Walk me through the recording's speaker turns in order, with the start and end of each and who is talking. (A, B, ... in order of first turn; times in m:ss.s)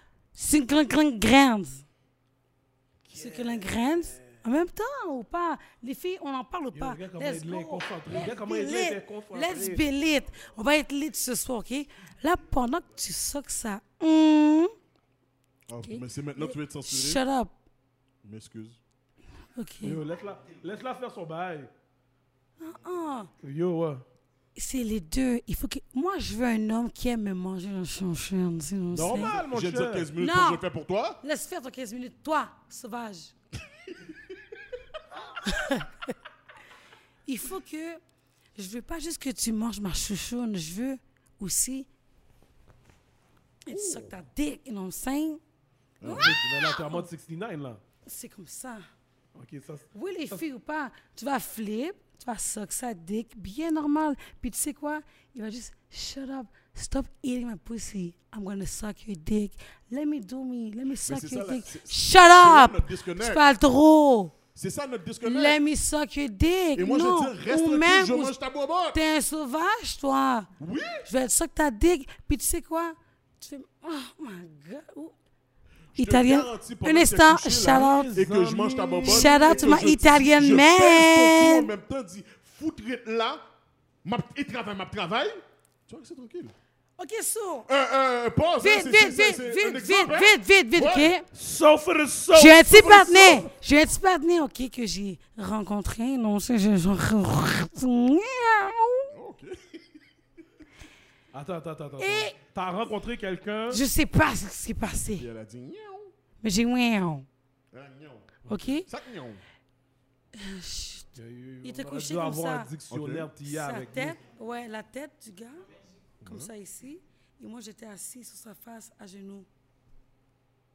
0:00.3-0:01.8 A
0:03.0-0:04.4 B
0:03.1-0:14.7 A
0:06.7-0:09.8 B
0:15.7-0:17.2 C
0:15.8-0:17.5 A
0:18.2-0:18.8 C
0:19.5-0:20.0 A
0:19.8-0:21.7 B
0:22.6-0:23.3 A
0:23.4-0:24.0 B
0:24.6-0:29.4 A
0:28.9-0:31.2 C
0:29.1-0:30.1 B
0:30.2-0:30.6 A
0:31.2-0:33.3 A
0:35.4-0:36.1 A
0:37.2-0:38.0 A
0:38.6-0:41.9 A
0:43.6-0:45.4 A
0:46.0-0:46.4 C
0:46.0-0:47.1 A
0:46.0-0:47.8 B
0:48.0-0:48.9 A
0:49.3-0:50.4 B
0:49.9-1:04.3 A
1:01.0-1:03.4 C
1:04.5-1:05.6 C
1:05.2-1:08.4 A
1:06.7-1:09.0 C
1:08.9-1:10.5 A
1:10.6-1:11.1 C
1:11.0-1:15.1 A
1:15.9-1:23.4 C
1:16.0-1:18.2 A
1:17.6-1:19.8 B
1:19.0-1:21.7 A
1:24.0-1:26.5 C
1:27.0-1:27.7 A
1:27.6-1:31.1 C
1:28.6-1:31.2 A
1:31.3-1:32.7 B
1:32.3-1:39.1 A
1:32.6-1:33.5 C
1:39.1-1:40.0 C
1:41.3-1:43.8 B
1:42.0-1:42.4 A
1:43.7-1:45.3 A
1:45.1-1:46.1 C
1:46.4-1:47.3 A
1:47.7-1:49.4 C
1:48.4-1:48.9 A
1:50.3-1:51.1 A
1:51.1-1:54.2 B
1:51.6-1:52.7 A
1:52.9-1:53.3 C
1:53.4-1:55.7 A
1:56.2-1:56.5 C
1:56.2-1:59.5 A